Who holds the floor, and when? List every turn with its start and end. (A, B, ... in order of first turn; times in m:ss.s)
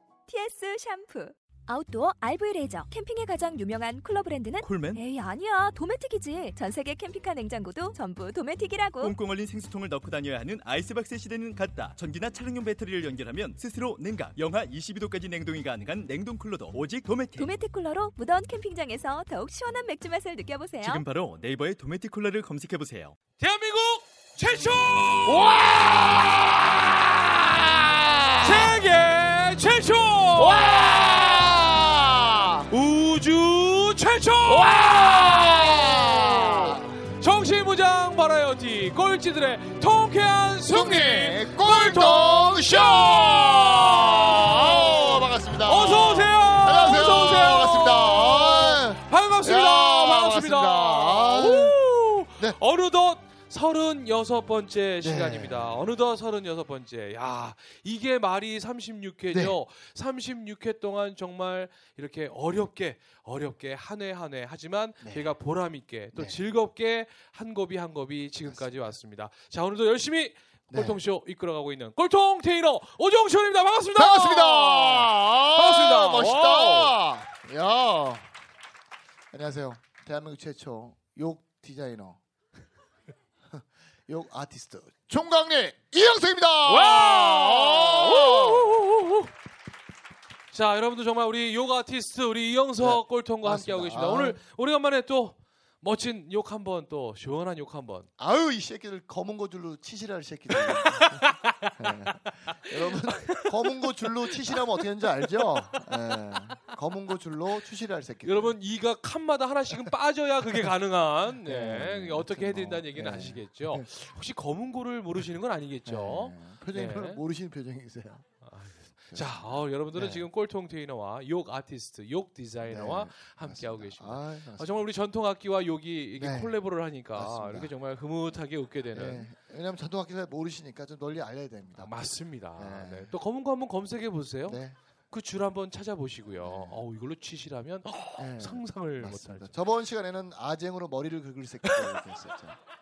0:00.3-0:09.1 A
0:04.6-0:05.0 B
0:09.0-0:17.6 B
0:17.4-0:21.0 A
0:20.8-0:23.2 B
0:23.4-0:25.5 C
0:25.3-0:26.4 B
0:25.5-0:26.3 D
0:28.4-0:30.7 C
0:30.4-0:32.7 D
0:30.5-0:31.5 B
0:32.7-1:17.0 C
0:34.5-0:37.0 D
0:40.7-0:51.8 D
0:55.0-0:55.8 D
0:59.3-0:59.6 D
1:05.0-1:05.3 D
1:08.4-1:08.8 D
1:10.7-1:11.0 D
1:14.0-1:18.3 D
1:19.3-1:22.2 D
1:23.5-1:28.8 D
1:26.6-1:29.3 C
1:30.5-1:38.1 C
1:32.8-1:34.4 D
1:38.2-1:48.6 D
1:40.5-1:41.9 C
1:42.5-1:43.8 C
1:45.4-1:45.9 C
1:48.2-1:57.2 C
1:51.4-1:53.8 D
1:55.8-1:58.3 D
1:58.4-2:09.3 C
1:59.1-2:00.2 D
2:02.6-2:04.8 D
2:06.2-2:06.6 D
2:07.1-2:07.7 D
2:08.9-2:11.9 D
2:11.8-2:19.5 C
2:12.6-2:13.1 D
2:14.5-2:14.8 D
2:16.4-2:16.8 D
2:18.2-2:22.6 D
2:21.7-2:22.0 C